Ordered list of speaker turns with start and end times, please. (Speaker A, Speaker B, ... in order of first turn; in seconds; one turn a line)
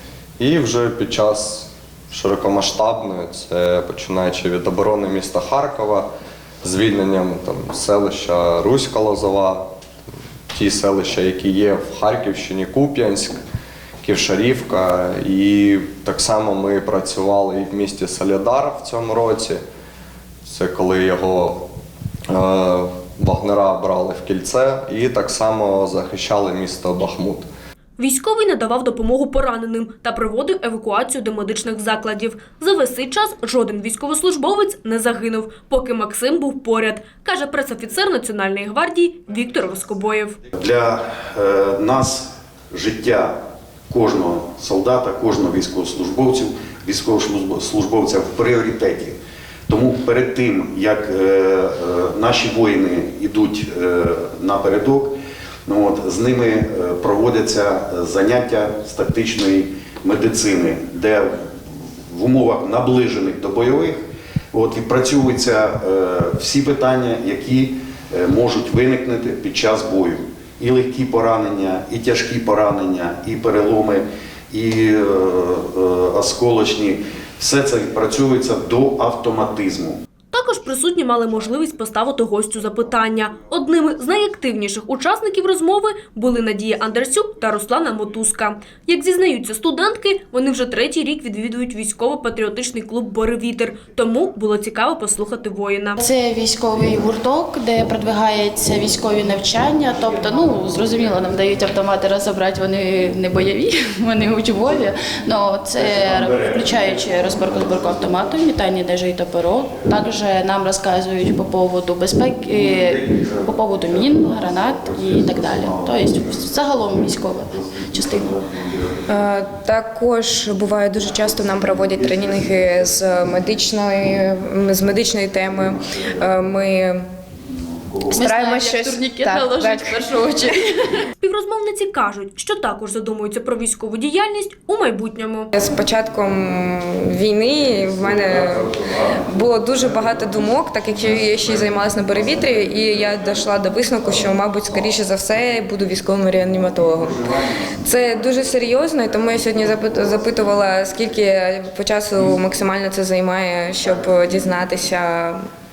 Speaker A: 0.4-6.1
Speaker A: 6.6-9.7
Speaker A: 10.5-13.4
Speaker A: 14.0-19.6
Speaker A: 20.4-21.6
Speaker A: 22.3-27.5
Speaker B: 28.0-40.4
Speaker C: 40.6-43.4
Speaker C: 43.9-49.2
Speaker C: 49.7-55.1
Speaker C: 55.7-61.3
Speaker C: 62.1-64.0
Speaker C: 64.5-80.0
Speaker B: 80.3-96.0
Speaker D: 96.0-118.4
Speaker E: 119.0-127.1
Speaker D: 128.1-131.0
Speaker E: 128.1-130.0
Speaker B: 131.2-135.5
Speaker E: 135.6-147.2
Speaker E: 147.8-155.4